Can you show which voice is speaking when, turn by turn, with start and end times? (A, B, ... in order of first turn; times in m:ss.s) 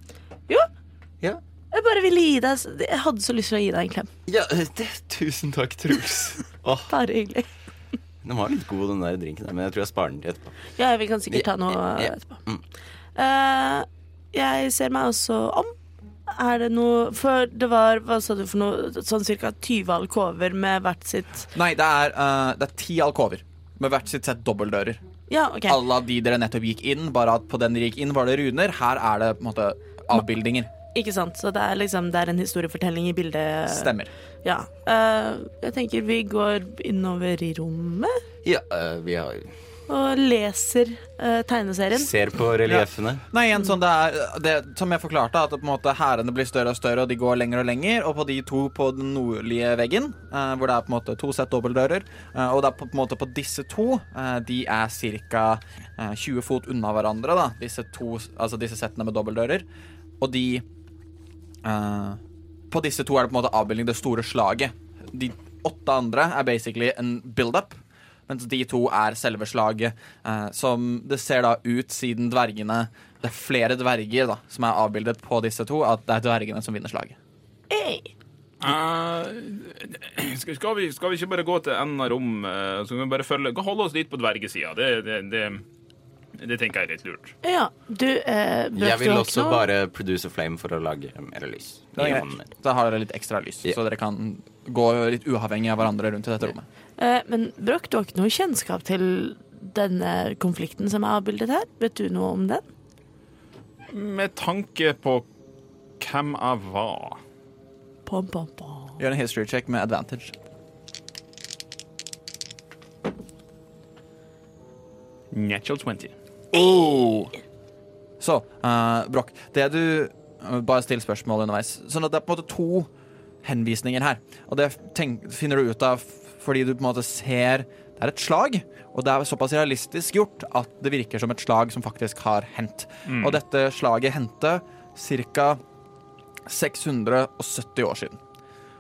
0:01.7-0:04.1 A
0:04.3-0:06.9 B
0:06.9-0:07.5 A
0:08.2-0:10.6 B
0:10.8-0:12.4 A
0:11.3-0:12.6 B
0:13.2-0:15.7 A
0:16.3-0:21.5 A
0:21.5-0:25.0 C
0:25.3-0:25.8 A
0:25.7-0:30.7 C
0:30.9-0:38.2 A
0:33.7-0:34.1 C
0:38.4-0:39.5 B
0:39.9-0:42.1 A
0:41.9-0:43.2 B
0:42.6-0:59.6 C
1:00.2-1:00.6 C
1:01.6-1:02.2 C
1:02.7-1:17.2 C
1:17.7-1:18.1 A
1:18.6-1:25.6 D
1:26.4-1:27.3 D
1:27.4-1:29.7 A
1:28.8-1:32.5 B
1:32.0-1:36.7 C
1:37.0-1:42.7 A
1:43.9-1:45.2 D
1:46.0-1:47.2 D
1:48.1-1:49.0 A
1:49.0-1:50.3 C
1:55.4-1:56.1 D
1:56.5-1:57.3 C
1:58.2-2:02.9 C
2:03.4-2:15.6 C
2:16.5-2:18.2 C